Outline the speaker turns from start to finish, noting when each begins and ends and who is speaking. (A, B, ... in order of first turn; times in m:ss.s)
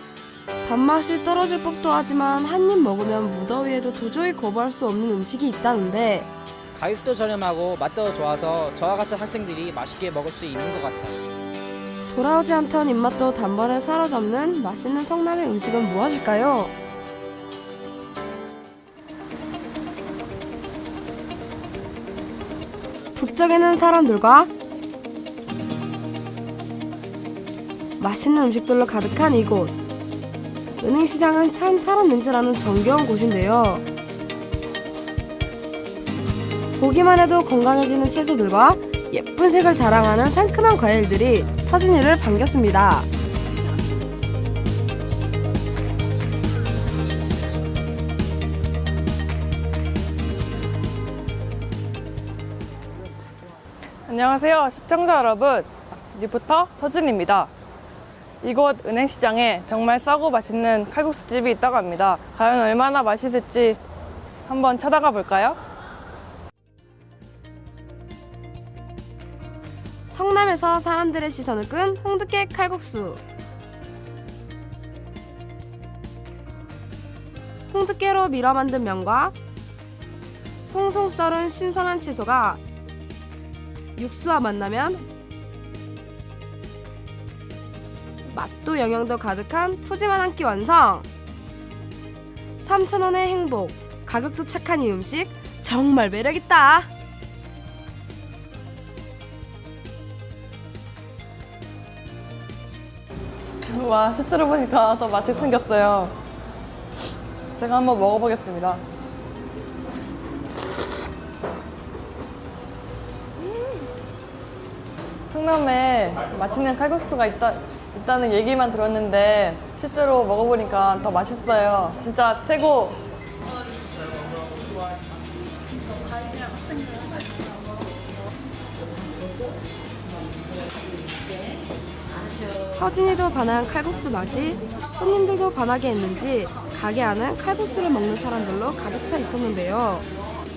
0:00.6-0:06.3 A
0:06.7-0:11.1 B
0:12.1-0:16.7 A
0:23.2-0:24.5 A
0:28.0-0:29.8 A
0:30.8-0:33.8 A
0:36.8-0:43.1 A
0:54.1-0:57.5 C
0:58.4-1:03.8 C
1:04.4-1:05.6 C
1:10.1-1:13.2 A
1:17.7-1:19.3 A
1:20.7-1:22.6 A
1:24.0-1:25.0 A
1:28.2-1:31.1 A
1:32.6-1:36.9 A
1:43.7-1:46.2 C
1:47.6-1:48.8 C
1:55.3-2:03.0 C
2:12.7-2:20.0 A